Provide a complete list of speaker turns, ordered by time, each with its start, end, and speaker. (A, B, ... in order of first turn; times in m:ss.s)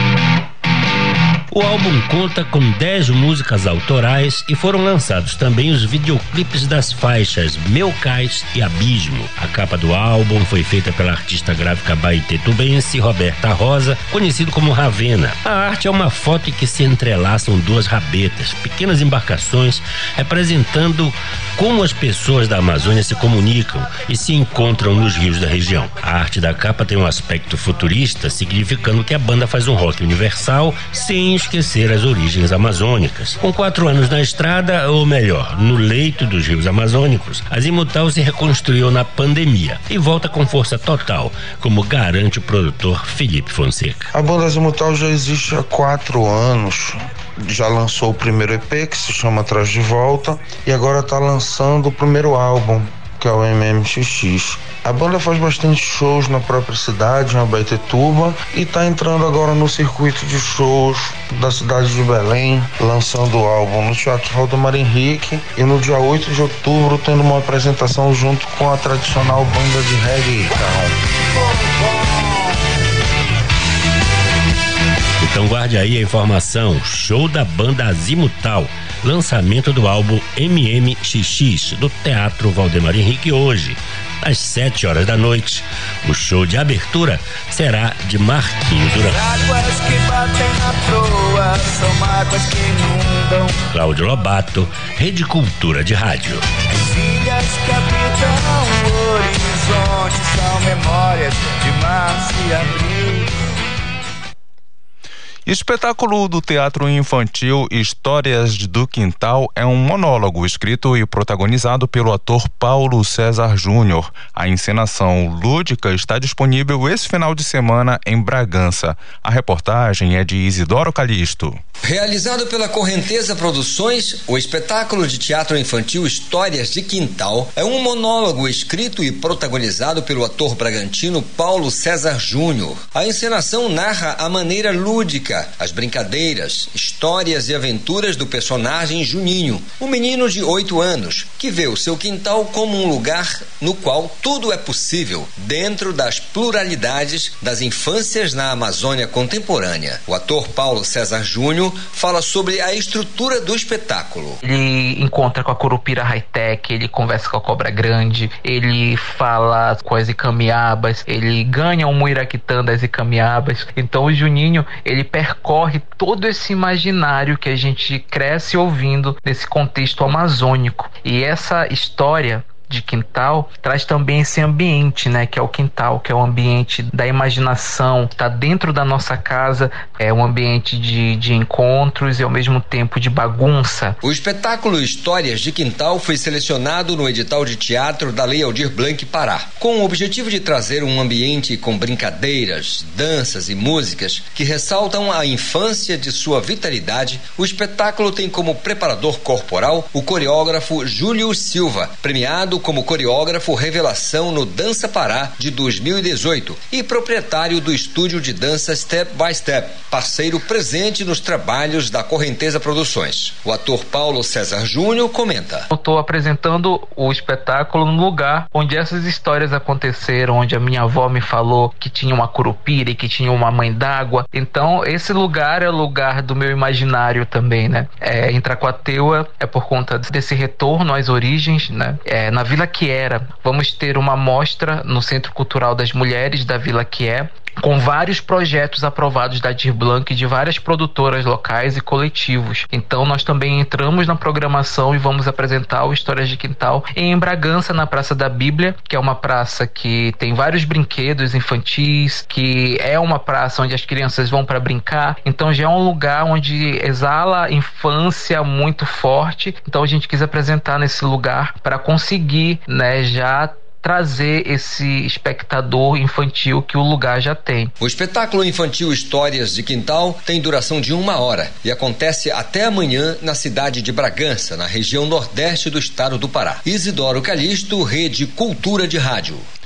0:01.5-0:44.1 A
0:44.1-1:11.0 B
1:15.2-1:29.2 A
1:29.1-1:33.5 C
1:33.7-1:36.4 A
1:36.8-1:43.3 C
1:45.4-2:01.6 D
2:01.8-2:34.4 E
2:34.4-3:04.0 F
3:04.0-3:35.7 E
3:35.7-4:27.7 F
4:27.8-4:39.4 E